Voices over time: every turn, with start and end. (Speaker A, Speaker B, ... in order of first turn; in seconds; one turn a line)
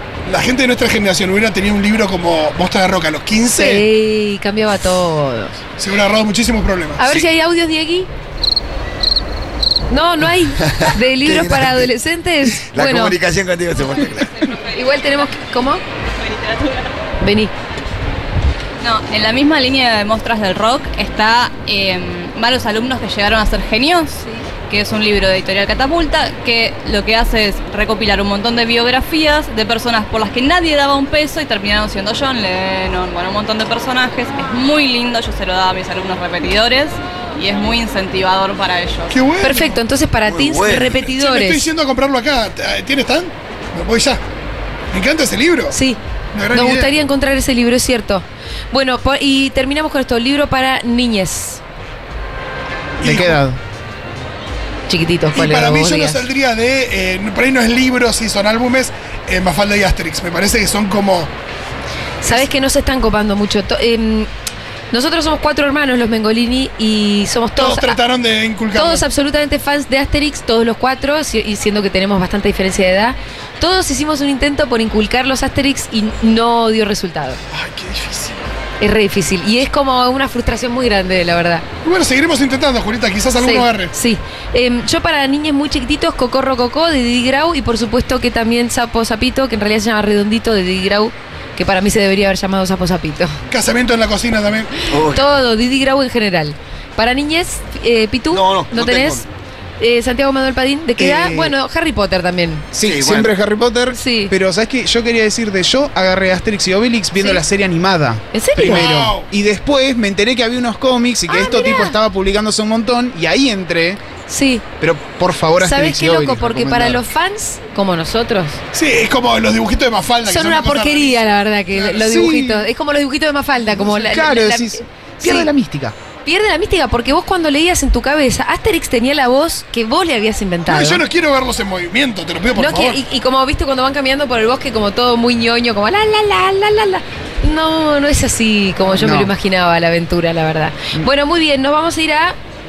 Speaker A: 0.2-3.9
Speaker B: 3.4-5.5
Speaker A: 5.8-7.0
Speaker B: 7.0-8.1
Speaker B: 9.9-13.2
Speaker C: 10.6-11.9
Speaker C: 12.7-14.5
Speaker D: 14.3-15.4
Speaker B: 14.7-15.8
Speaker D: 16.2-16.9
Speaker B: 17.2-17.5
Speaker D: 18.8-39.1
Speaker A: 39.1-39.8
Speaker B: 39.4-41.6
Speaker C: 40.2-41.1
Speaker A: 41.1-44.2
Speaker A: 44.9-45.8
Speaker B: 45.7-46.0
Speaker A: 46.3-46.9
Speaker B: 46.5-51.6
Speaker A: 53.0-53.4
Speaker E: 53.0-53.6
Speaker B: 54.9-56.2
Speaker A: 55.3-61.3
Speaker B: 62.2-64.3
Speaker B: 64.9-68.0
Speaker A: 67.6-69.0
Speaker B: 68.7-77.4
Speaker A: 77.5-78.4
Speaker B: 78.8-81.6
Speaker A: 81.8-83.9
Speaker B: 83.4-93.4
Speaker A: 93.5-94.7
Speaker C: 94.9-95.3
Speaker B: 94.9-99.2
Speaker C: 98.3-99.2
Speaker B: 99.8-102.6
Speaker E: 101.0-101.5
Speaker E: 102.7-114.0
Speaker C: 102.8-103.3
Speaker B: 103.9-104.3
Speaker B: 107.2-107.4
Speaker B: 108.3-108.9
Speaker A: 108.6-109.3
Speaker B: 111.3-112.0
Speaker B: 114.3-114.6
Speaker E: 114.8-117.0
Speaker B: 115.6-118.6
Speaker A: 118.7-121.2
Speaker B: 120.2-125.5
Speaker E: 122.0-122.7
Speaker E: 123.6-125.9
Speaker B: 126.2-131.0
Speaker A: 130.7-133.0
Speaker B: 132.6-142.3
Speaker E: 138.9-139.3